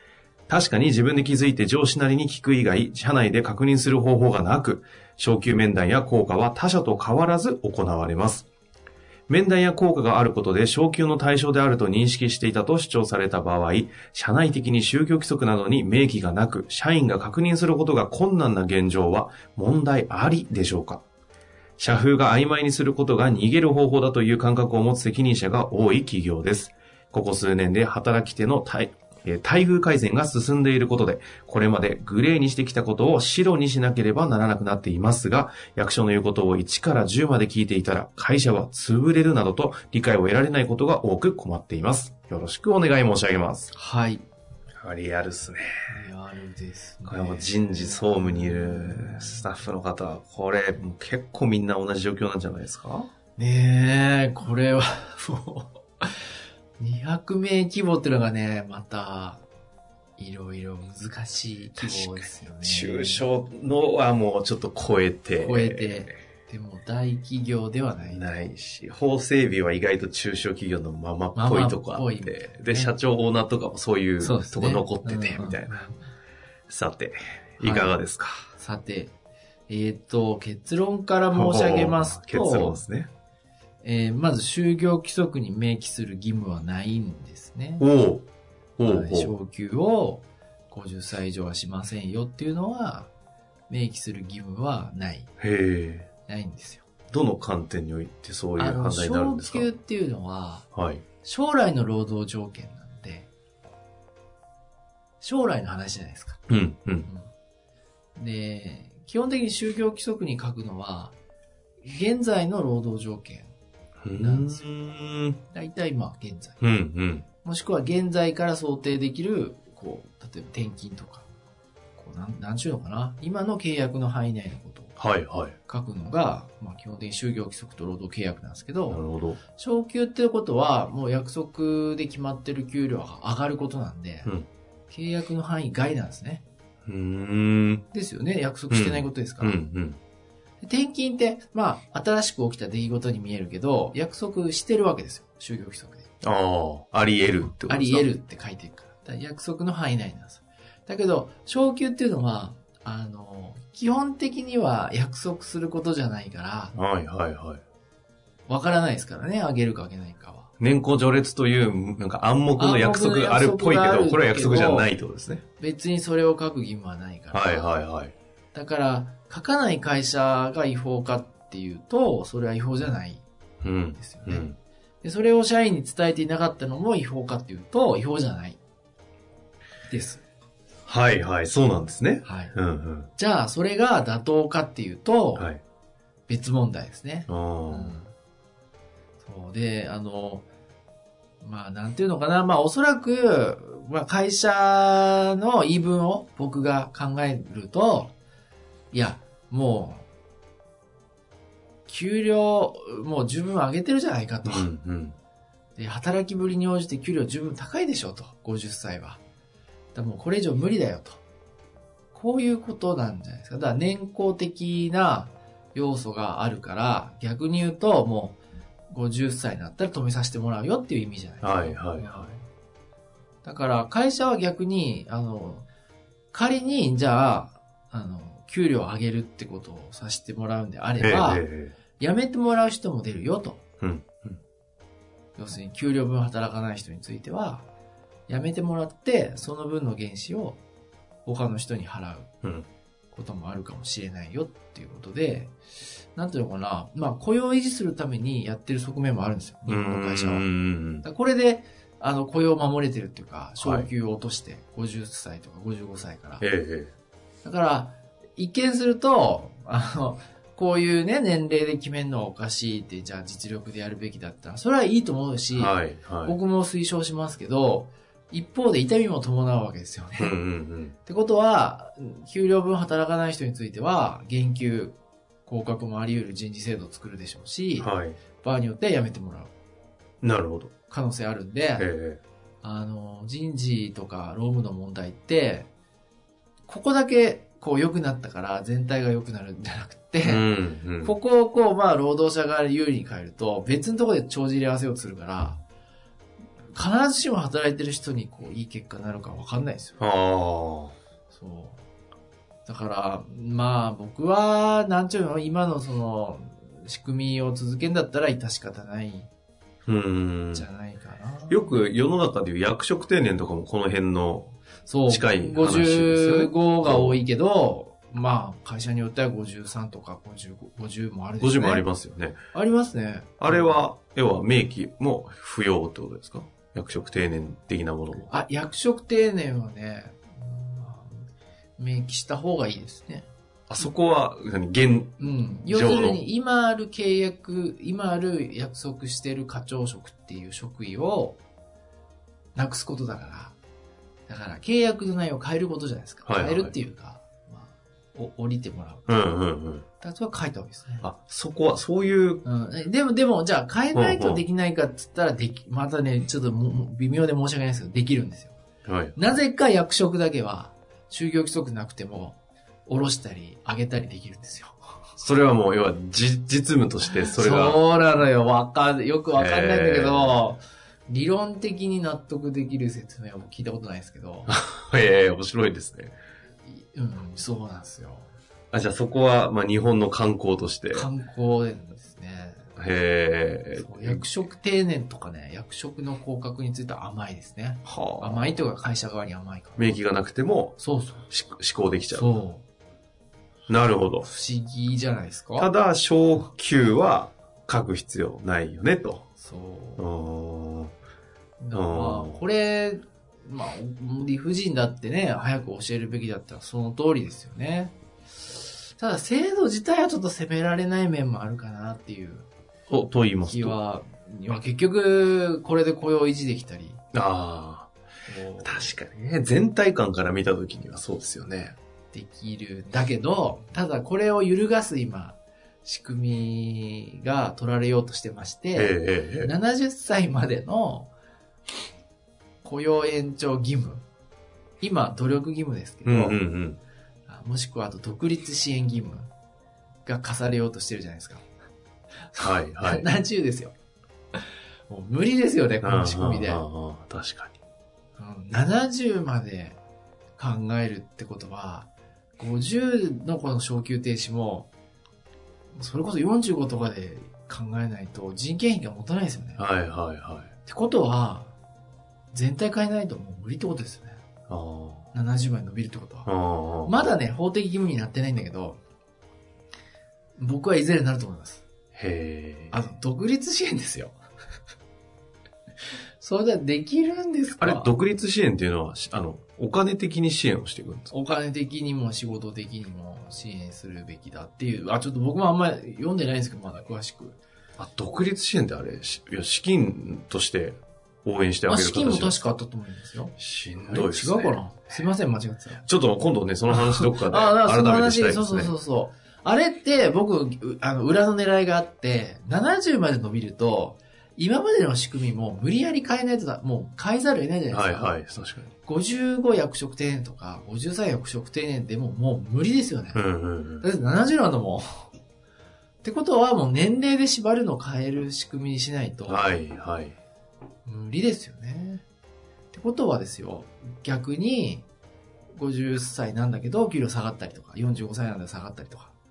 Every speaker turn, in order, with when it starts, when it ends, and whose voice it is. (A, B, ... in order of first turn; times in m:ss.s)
0:00.5-0:08.5 A
0:09.3-0:21.0 A
0:21.8-0:43.7 A
0:43.7-0:44.3 B
0:44.8-0:46.0 A
0:45.9-0:49.5 B
0:47.0-0:53.1 A
0:53.4-0:56.1 B
0:56.8-0:59.4 B
1:00.2-1:03.2 B
1:01.8-1:06.2 A
1:05.4-1:08.3 B
1:08.1-1:15.9 A
1:11.4-1:12.9 B
1:14.2-1:16.0 B
1:16.7-1:18.5 A
1:17.6-1:18.0 B
1:18.6-1:19.1 B
1:19.7-1:22.8 B
1:21.3-1:23.1 A
1:23.8-1:27.9 B
1:27.8-1:29.3 A
1:28.9-1:33.1 B
1:33.7-1:35.3 B
1:35.4-1:36.1 A
1:36.3-1:36.9 B
1:37.1-1:39.7 A
1:38.6-1:40.7 B
1:40.8-1:41.0 A
1:41.2-1:43.3 B
1:45.2-1:46.4 B
1:46.5-1:47.1 A
1:48.2-1:51.2 B
1:51.8-1:53.5 B
1:54.0-1:55.4 A
1:54.2-1:54.7 B
1:55.5-1:56.6 B
1:56.6-1:57.3 A
1:57.4-2:01.3 B
2:02.0-2:05.0 B
2:05.0-2:05.6 A
2:05.7-2:09.0 B
2:08.9-2:09.4 A
2:09.6-2:14.3 B
2:14.9-2:16.4 B
2:16.9-2:17.8 A
2:17.9-2:19.6 B
2:18.7-2:20.0 A
2:20.6-2:26.1 B
2:26.2-2:28.1 A
2:27.7-2:36.7 B
2:36.7-2:37.6 A
2:38.5-2:40.5 B
2:40.6-2:45.4 A
2:42.6-2:44.9 B
2:45.6-2:47.8 B
2:47.3-2:48.1 A
2:48.5-2:53.2 B
2:53.6-2:54.6 A
2:54.0-2:54.5 B
2:55.0-2:58.6 B
2:59.9-3:00.2 B
3:00.9-3:03.1 A
3:02.2-3:02.6 B
3:03.1-3:05.5 B
3:06.3-3:08.1 B
3:07.3-3:08.0 A
3:09.2-3:10.5 B
3:11.4-3:18.1 B
3:18.9-3:20.1 B
3:21.9-3:24.7 B
3:24.4-3:25.2 A
3:25.8-3:29.2 B
3:30.0-3:31.2 B
3:32.1-3:38.4 B
3:38.9-3:42.4 B
3:41.4-3:42.3 A
3:43.4-3:45.7 B
3:46.3-3:51.4 B
3:51.0-3:51.8 A
3:52.0-3:53.6 B
3:53.8-3:54.4 A
3:55.4-3:57.7 B
3:58.3-4:00.6 B
4:01.2-4:02.3 B
4:03.1-4:05.5 B
4:06.1-4:10.5 B
4:09.7-4:11.0 A
4:11.0-4:16.4 B
4:13.6-4:13.9 A
4:16.4-4:16.9 A
4:17.4-4:30.4 B
4:25.5-4:26.4 A
4:30.2-4:31.0 A
4:31.0-4:39.5 B
4:37.8-4:38.2 A
4:40.2-4:40.7 A
4:40.9-4:41.9 B
4:41.8-4:42.2 A
4:42.6-4:45.7 B
4:46.7-4:55.6 B
4:50.2-4:51.1 A
4:56.7-5:00.0 B
5:00.0-5:01.0 A
5:01.3-5:01.8 B
5:02.7-5:09.3 B
5:09.9-5:10.7 A
5:10.5-5:11.8 B
5:11.5-5:14.6 A
5:14.9-5:21.9 B
5:15.1-5:17.2 A
5:21.4-5:22.4 A
5:22.5-5:23.8 B
5:23.4-5:28.3 A
5:28.3-5:31.3 B
5:31.8-5:33.3 B
5:33.7-5:36.2 A
5:35.2-5:41.4 B
5:42.6-5:43.6 B
5:44.3-5:49.2 B
5:46.3-5:46.7 A
5:49.1-5:49.9 A
5:50.0-5:51.0 B
5:51.0-5:52.4 A
5:52.4-5:58.6 B
5:53.9-5:54.4 A
5:58.9-5:59.2 A
5:59.2-6:04.8 B
6:05.2-6:07.8 A
6:07.3-6:14.5 B
6:09.4-6:10.4 A
6:14.5-6:16.2 A
6:16.7-6:18.3 B
6:18.7-6:21.1 A
6:20.9-6:22.7 B
6:22.8-6:24.3 A
6:23.8-6:30.0 B
6:27.9-6:28.6 A
6:29.8-6:32.4 A
6:30.8-6:31.3 B
6:32.1-6:32.6 B
6:33.7-6:34.3 A
6:34.2-6:35.7 B
6:35.6-6:39.3 A
6:39.4-6:40.1 B
6:40.0-6:40.9 A
6:41.6-6:48.0 B
6:41.7-6:42.4 A
6:48.9-6:52.5 B
6:52.9-6:53.8 A
6:53.4-6:57.0 B
6:57.1-6:57.9 A
6:58.3-6:59.0 B
6:58.6-7:01.8 A
7:02.1-7:11.1 B
7:08.8-7:09.5 A
7:12.6-7:14.0 B
7:14.8-7:16.4 B
7:16.0-7:16.8 A
7:17.3-7:19.3 B
7:20.0-7:21.5 B
7:22.3-7:23.7 B
7:22.4-7:23.1 A
7:24.4-7:26.6 B
7:25.8-7:27.6 A
7:28.2-7:29.8 B
7:30.4-7:34.7 B
7:35.8-7:39.6 B
7:39.6-7:40.5 A
7:40.6-7:41.6 B
7:42.3-7:44.2 B
7:44.5-7:45.1 A
7:45.1-7:46.3 B
7:46.3-7:47.1 A
7:46.9-7:48.8 B
7:50.4-7:51.6 B
7:51.9-7:52.8 A
7:52.7-7:54.2 B
7:56.2-7:57.9 B
7:57.6-8:01.1 A
8:01.1-8:07.4 B
8:07.8-8:12.4 A
8:11.7-8:13.4 B
8:13.4-8:14.6 A
8:13.9-8:15.9 B
8:15.8-8:18.7 A
8:16.7-8:28.2 B
8:27.7-8:28.7 A
8:28.8-8:33.2 B
8:33.2-8:33.9 A
8:33.8-8:35.1 B
8:36.0-8:39.6 B
8:39.3-8:40.2 A
8:40.9-8:42.0 B
8:42.7-8:44.9 B
8:45.5-8:49.1 B